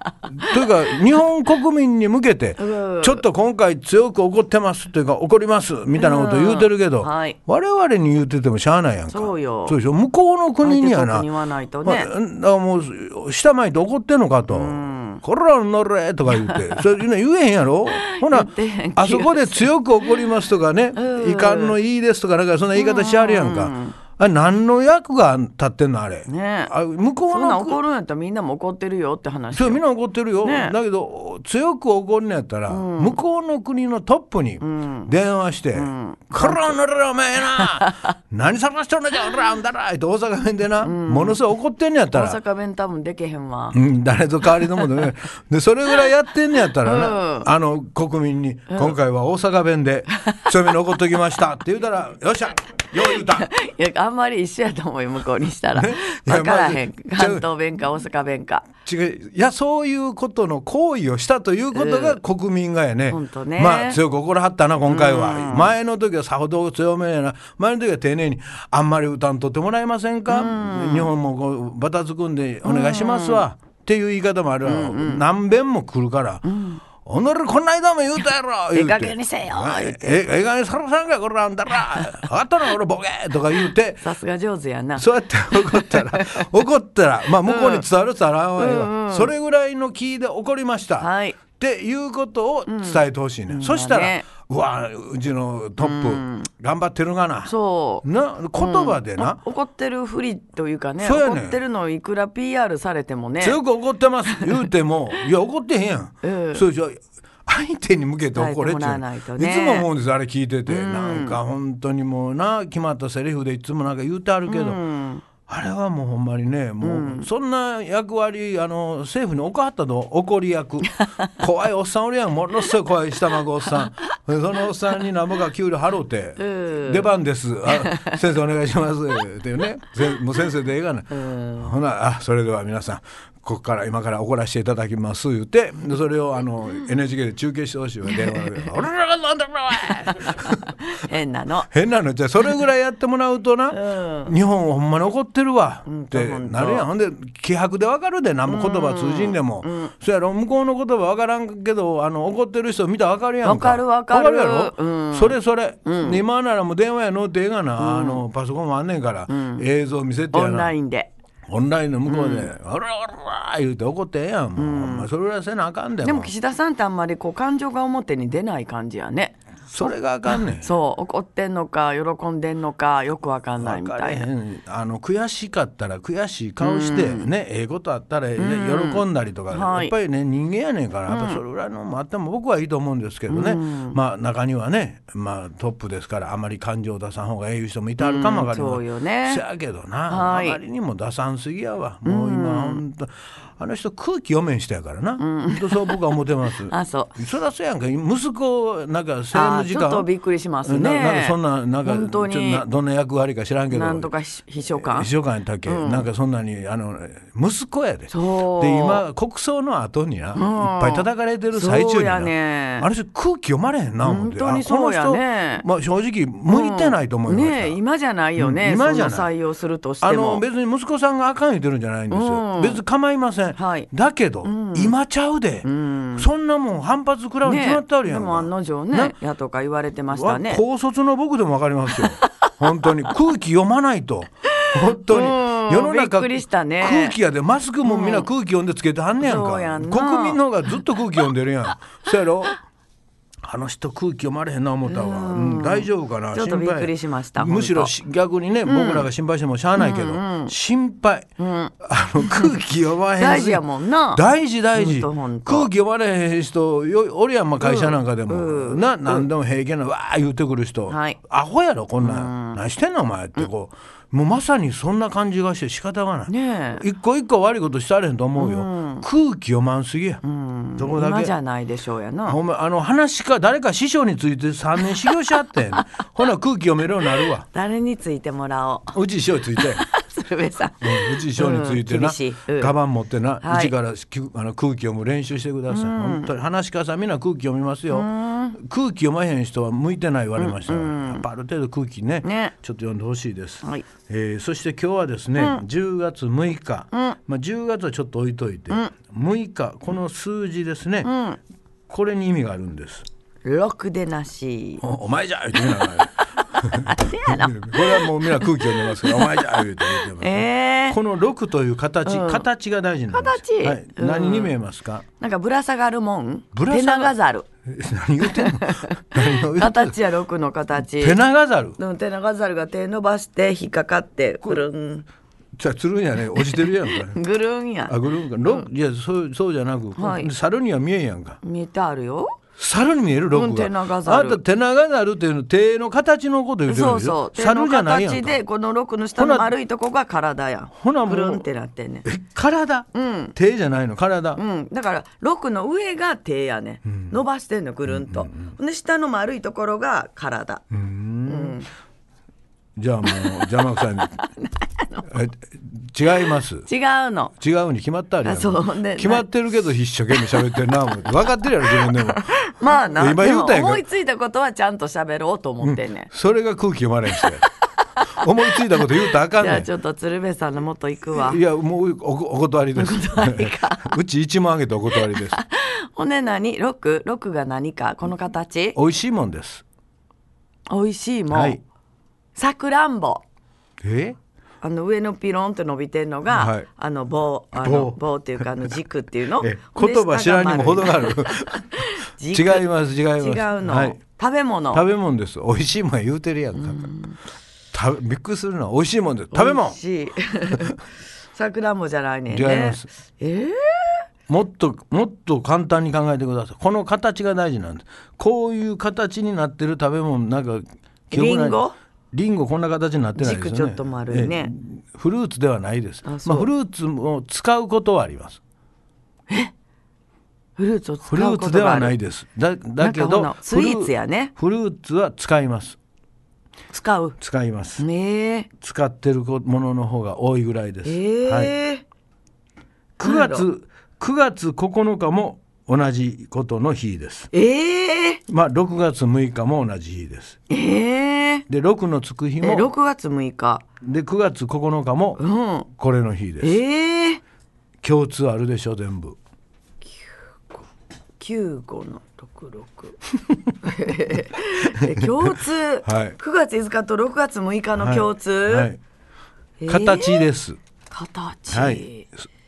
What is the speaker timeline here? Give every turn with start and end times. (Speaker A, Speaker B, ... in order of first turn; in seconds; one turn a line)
Speaker A: 0.3-11.3
Speaker B: 2.6-3.2
Speaker B: 6.0-7.4
Speaker B: 9.1-9.8
Speaker B: 10.6-12.1
Speaker A: 11.8-27.8
Speaker B: 14.5-15.2
Speaker B: 16.3-16.9
Speaker B: 17.9-20.2
Speaker B: 20.9-21.8
Speaker B: 22.8-24.0
Speaker B: 26.3-26.7
Speaker B: 27.3-29.8
Speaker A: 29.5-42.4
Speaker B: 30.4-30.8
Speaker B: 32.7-33.2
Speaker B: 34.6-35.1
Speaker B: 35.7-36.8
Speaker B: 40.8-41.4
Speaker B: 42.1-43.8
Speaker A: 43.7-53.5
Speaker B: 44.6-44.9
Speaker B: 46.8-47.5
Speaker B: 52.9-58.7
Speaker A: 55.7-57.5
Speaker A: 58.8-76.5
Speaker B: 61.7-62.2
Speaker B: 63.1-64.0
Speaker B: 64.9-65.8
Speaker B: 70.3-71.1
Speaker B: 72.6-73.5
Speaker B: 74.6-75.2
Speaker B: 76.4-76.8
Speaker A: 77.0-84.1
Speaker B: 78.7-80.2
Speaker B: 84.0-86.5
Speaker A: 85.0-99.4
Speaker B: 87.4-87.9
Speaker B: 88.6-89.3
Speaker B: 91.0-91.4
Speaker B: 92.7-94.3
Speaker B: 95.8-96.5
Speaker B: 97.5-103.6
Speaker A: 101.0-101.6
Speaker A: 103.4-114.8
Speaker B: 104.3-104.7
Speaker B: 106.2-106.7
Speaker B: 108.3-109.9
Speaker B: 110.7-111.4
Speaker B: 114.5-115.2
Speaker A: 115.5-140.8
Speaker B: 116.8-117.3
Speaker B: 126.4-127.1
Speaker B: 127.7-128.2
Speaker B: 131.1-131.7
Speaker B: 138.1-138.7
Speaker B: 140.1-141.7
Speaker A: 141.7-160.8
Speaker B: 143.7-144.3
Speaker B: 145.9-146.9
Speaker B: 148.5-149.9
Speaker B: 153.4-156.2
Speaker B: 157.8-158.2
Speaker B: 159.3-159.6
Speaker B: 160.3-161.1
Speaker A: 161.5-166.3
Speaker B: 162.1-162.5
Speaker B: 164.6-165.1
Speaker B: 166.0-174.3
Speaker A: 169.7-170.7
Speaker A: 173.6-200.1
Speaker B: 176.6-177.3
Speaker B: 178.4-179.9
Speaker B: 181.1-181.4
Speaker B: 183.3-184.0
Speaker B: 188.0-189.4
Speaker B: 190.1-190.6
Speaker B: 192.1-192.8
Speaker B: 195.2-196.1
Speaker B: 196.7-197.2
Speaker B: 199.3-202.7
Speaker A: 200.7-204.1
Speaker B: 203.7-205.1
Speaker A: 204.8-217.8
Speaker B: 205.7-206.1
Speaker B: 208.1-209.0
Speaker B: 210.3-212.9
Speaker B: 214.0-215.7
Speaker B: 216.5-220.4
Speaker A: 218.4-219.3
Speaker A: 220.0-229.1
Speaker B: 222.1-222.8
Speaker B: 223.6-223.9
Speaker B: 224.4-224.9
Speaker B: 225.6-226.3
Speaker B: 227.4-230.6
Speaker A: 230.1-242.6
Speaker B: 234.5-237.2
Speaker B: 237.8-238.3
Speaker B: 239.2-241.2
Speaker A: 243.4-251.3
Speaker B: 244.9-247.9
Speaker B: 248.7-249.1
Speaker B: 249.8-250.5
Speaker B: 251.4-252.6
Speaker A: 251.8-253.6
Speaker B: 253.2-255.7
Speaker A: 254.1-270.2
Speaker B: 257.6-259.3
Speaker B: 260.9-261.2
Speaker B: 262.0-262.6
Speaker B: 266.3-266.9
Speaker B: 268.4-269.1
Speaker B: 270.2-272.4
Speaker A: 270.8-271.3
Speaker A: 272.3-277.5
Speaker B: 277.1-279.0
Speaker A: 278.9-279.9
Speaker B: 279.6-282.8
Speaker A: 280.8-301.1
Speaker B: 283.4-283.7
Speaker B: 285.7-286.3
Speaker B: 287.9-288.6
Speaker B: 290.4-291.2
Speaker B: 292.2-292.5
Speaker B: 295.4-295.6
Speaker B: 296.9-297.2
Speaker B: 301.0-301.4
Speaker A: 301.9-303.1
Speaker B: 303.4-304.8
Speaker A: 304.8-315.1
Speaker B: 305.6-311.0
Speaker B: 312.1-312.5
Speaker B: 313.1-314.6
Speaker B: 315.2-317.5
Speaker A: 316.5-320.0
Speaker B: 318.2-321.2
Speaker A: 321.0-321.8
Speaker B: 321.8-325.1
Speaker A: 325.6-327.2
Speaker B: 326.4-328.7
Speaker A: 327.9-331.4
Speaker B: 330.0-330.3
Speaker B: 331.4-332.4
Speaker A: 332.6-338.4
Speaker B: 333.3-334.4
Speaker B: 336.7-342.1
Speaker A: 339.2-339.6
Speaker A: 340.8-341.4
Speaker A: 342.1-344.4
Speaker B: 342.9-343.4
Speaker B: 344.4-350.7
Speaker A: 346.9-347.2
Speaker A: 347.9-348.5
Speaker A: 350.7-351.6
Speaker B: 351.3-351.7
Speaker A: 352.8-354.2
Speaker B: 353.1-355.1
Speaker A: 355.1-356.7
Speaker B: 356.6-357.4
Speaker A: 357.4-363.9
Speaker B: 358.2-359.3
Speaker B: 360.1-360.6
Speaker B: 361.6-366.1
Speaker A: 365.6-367.5
Speaker A: 368.0-369.7
Speaker B: 369.4-371.4
Speaker A: 371.1-375.4
Speaker B: 372.8-374.0
Speaker B: 374.9-378.8
Speaker A: 378.8-379.6
Speaker B: 380.7-381.6
Speaker A: 381.3-381.6
Speaker B: 382.4-383.2
Speaker A: 383.8-384.2
Speaker B: 384.6-394.9
Speaker A: 386.3-386.7
Speaker A: 387.5-388.8
Speaker A: 389.4-394.0
Speaker A: 394.7-396.9
Speaker B: 396.6-397.2
Speaker A: 397.7-399.8
Speaker B: 399.3-400.8
Speaker B: 401.3-404.0
Speaker A: 402.3-402.9
Speaker A: 404.3-418.4
Speaker B: 411.1-411.8
Speaker B: 413.2-414.5
Speaker B: 416.1-416.5
Speaker B: 420.6-421.9
Speaker A: 421.1-425.8
Speaker B: 422.8-424.3
Speaker B: 426.7-427.2
Speaker A: 427.2-427.9
Speaker B: 427.8-428.5
Speaker A: 428.6-431.6
Speaker B: 430.8-431.8
Speaker A: 433.0-437.3
Speaker B: 433.0-433.5
Speaker B: 437.3-438.2
Speaker A: 438.3-440.4
Speaker B: 440.5-441.5
Speaker A: 441.5-442.7
Speaker B: 442.4-443.6
Speaker A: 443.8-445.2
Speaker B: 445.2-445.7
Speaker A: 445.8-446.6
Speaker B: 446.4-447.2
Speaker A: 447.8-449.2
Speaker B: 449.9-450.6
Speaker B: 451.2-453.0
Speaker B: 453.6-458.7
Speaker A: 454.8-455.3
Speaker A: 455.8-456.2
Speaker A: 457.8-458.8
Speaker B: 459.6-460.3
Speaker A: 459.7-460.6
Speaker B: 460.9-462.1
Speaker A: 461.5-462.2